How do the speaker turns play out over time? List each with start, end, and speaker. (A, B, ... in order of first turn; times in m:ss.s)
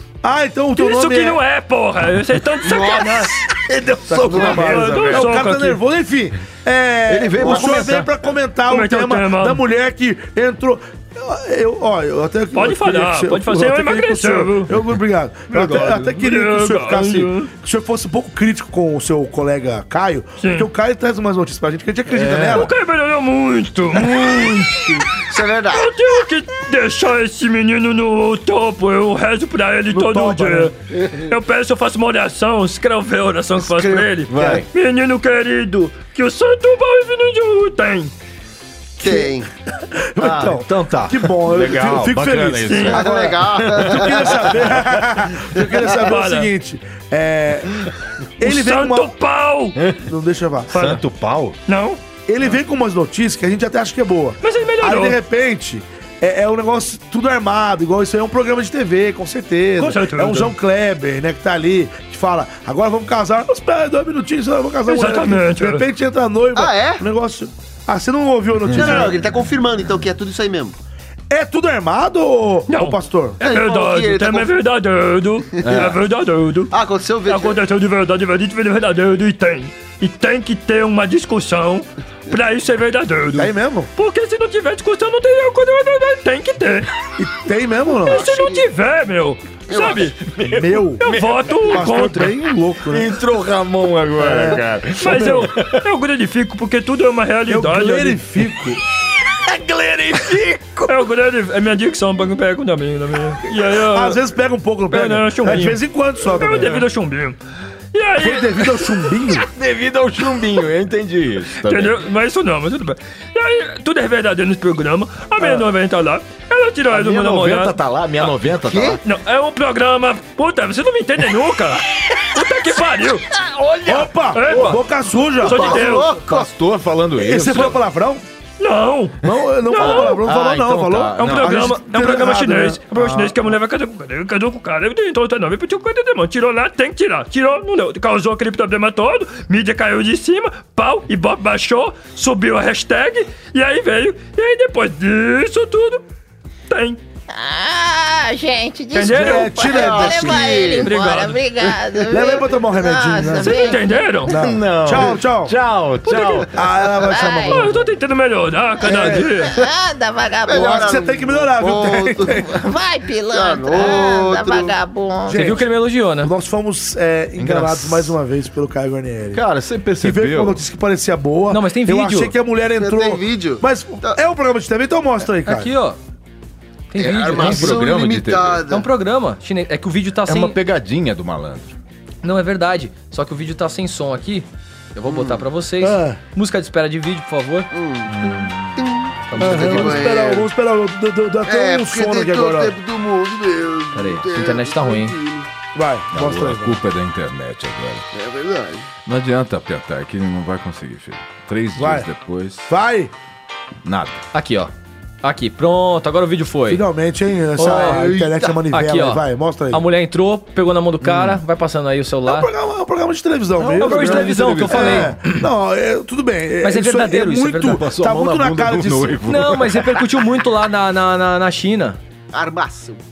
0:00.2-0:01.4 A
0:00.8-0:03.4 B
0:02.6-0:03.4 C
0:03.5-0:05.3 D
0:04.1-0:22.7 A
0:04.3-0:04.6 C
0:04.5-0:05.8 B
0:07.1-0:08.1 D
0:07.4-0:07.9 C
0:08.7-0:09.6 B
0:12.5-0:14.7 B
0:15.6-0:17.5 B
0:20.4-0:20.7 B
0:22.1-0:22.7 D
0:22.5-0:25.0 B
0:25.3-0:25.9 C
0:25.7-0:38.1 B
0:29.9-0:30.7 A
0:33.8-0:34.7 D
0:39.0-0:49.1 A
0:39.0-0:39.5 C
0:40.2-0:40.5 C
0:40.8-0:44.2 D
0:42.6-0:43.0 B
0:42.9-0:44.7 C
0:45.5-0:46.0 C
0:45.9-0:46.5 B
0:48.4-0:49.8 B
0:50.0-0:50.8 A
0:50.7-0:51.0 B
0:50.7-0:51.6 D
0:51.6-0:52.0 B
0:52.3-1:09.2 A
0:54.4-0:55.2 B
0:59.8-1:00.5 B
1:04.9-1:05.9 B
1:06.5-1:07.0 C
1:08.6-1:09.2 D
1:08.7-1:10.8 C
1:11.3-1:13.4 A
1:12.7-1:16.7 B
1:13.4-1:14.5 C
1:15.6-1:15.9 C
1:15.6-1:16.0 D
1:16.7-1:17.6 C
1:17.3-1:26.9 B
1:23.3-1:23.9 A
1:27.2-1:28.3 A
1:28.0-1:30.2 B
1:28.1-1:28.7 C
1:29.7-1:30.1 C
1:30.2-1:31.9 D
1:30.4-1:33.2 A
1:31.0-1:32.4 B
1:32.9-1:35.8 D
1:34.2-1:35.4 A
1:35.0-1:38.2 B
1:37.5-1:38.8 A
1:39.4-1:41.0 D
1:40.9-1:44.2 B
1:43.8-1:46.8 A
1:44.9-1:47.4 B
1:47.9-1:49.0 B
1:48.2-1:49.5 A
1:49.4-1:52.0 D
1:51.6-1:57.8 B
1:56.9-1:59.0 D
1:58.5-1:59.0 C
1:59.0-2:03.4 B
2:03.7-2:03.9 D
2:03.8-2:05.8 A
2:04.3-2:04.8 B
2:05.4-2:06.5 C
2:05.4-2:06.2 B
2:06.2-2:07.8 D
2:07.2-2:08.2 A
2:08.6-2:10.2 B
2:09.2-2:13.5 A
2:09.7-2:11.7 D
2:11.2-2:26.0 B
2:26.7-2:27.0 B
2:27.3-2:34.0 E
2:28.9-2:29.7 B
2:29.0-2:30.7 A
2:29.5-2:31.0 C
2:30.7-2:31.4 B
2:32.1-2:35.6 A
2:33.4-2:34.4 B
2:34.3-2:36.6 D
2:36.0-2:36.4 B
2:36.5-2:37.8 A
2:36.9-2:37.6 E
2:37.4-2:39.6 B
2:38.8-2:39.2 A
2:39.4-2:40.9 E
2:40.4-2:42.4 C
2:40.4-2:42.5 A
2:42.2-2:45.5 E
2:43.3-2:44.7 C
2:45.3-2:49.4 A
2:45.3-2:46.3 F
2:47.4-2:48.1 D
2:49.3-2:50.6 D
2:50.0-2:55.7 A
2:51.5-2:52.4 F
2:52.8-2:54.2 C
2:55.4-2:56.0 F
2:56.9-2:57.8 F
2:57.0-2:58.8 C
2:57.2-2:58.6 D
2:58.7-3:00.6 F
3:00.2-3:01.7 D
3:02.2-3:07.7 F
3:05.1-3:05.4 C
3:05.8-3:06.2 A
3:07.7-3:10.5 C
3:08.1-3:08.9 D
3:09.3-3:10.0 F
3:09.4-3:12.7 A
3:11.4-3:15.5 C
3:13.9-3:15.2 F
3:15.7-3:16.8 A
3:16.1-3:18.0 D
3:18.1-3:18.9 C
3:19.0-3:22.7 D
3:21.8-3:22.1 A
3:22.7-3:23.1 A
3:23.8-3:24.2 D
3:24.3-3:24.7 F
3:25.2-3:26.8 F
3:26.7-3:29.8 A
3:27.6-3:28.0 F
3:27.6-3:28.6 C
3:28.7-3:32.5 F
3:31.0-3:31.4 D
3:32.2-3:39.6 A
3:33.6-3:35.1 D
3:33.7-3:35.4 F
3:36.6-3:37.8 F
3:37.6-3:40.0 D
3:39.3-3:42.0 F
3:42.3-3:43.0 C